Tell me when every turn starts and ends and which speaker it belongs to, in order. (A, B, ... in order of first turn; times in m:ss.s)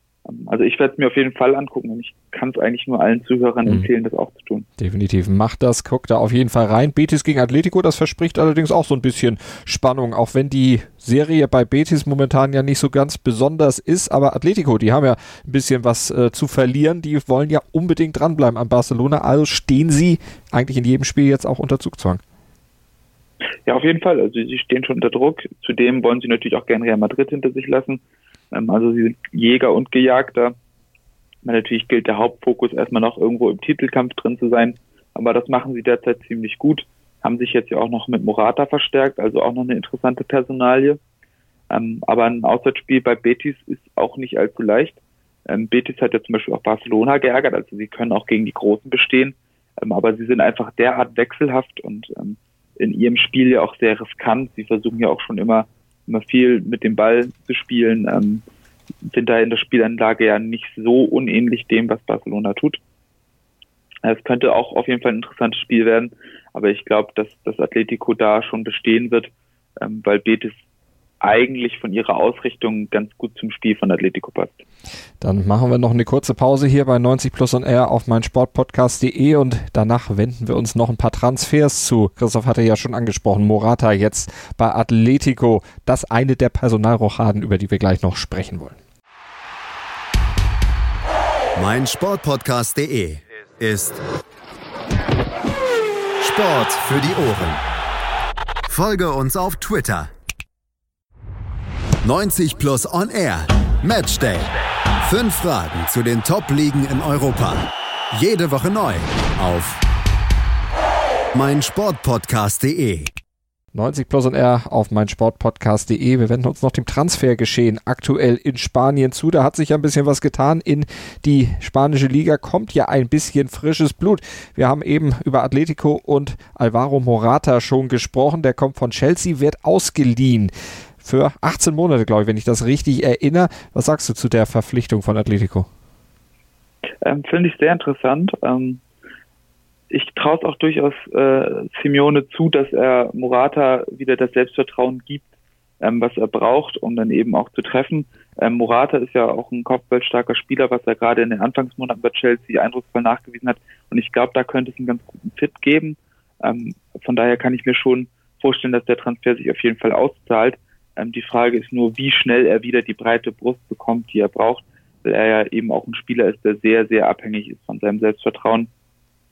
0:00.2-0:04.7 A
0:04.8-0:22.2 B
0:23.6-0:28.0 A
0:28.5-0:30.5 A
0:31.4-0:41.0 A
0:41.7-0:58.4 A
0:59.0-1:02.8 A
1:04.0-1:10.6 A
1:11.2-1:14.6 A
1:15.2-1:28.8 B
1:31.6-1:34.0 C
1:36.2-1:37.6 C
1:38.7-1:40.1 C
1:42.0-1:44.5 C
1:45.0-1:49.8 C
1:51.3-1:53.1 C
1:53.7-2:15.7 B
2:17.0-2:18.8 A
2:19.9-2:25.2 A
2:25.8-2:48.7 A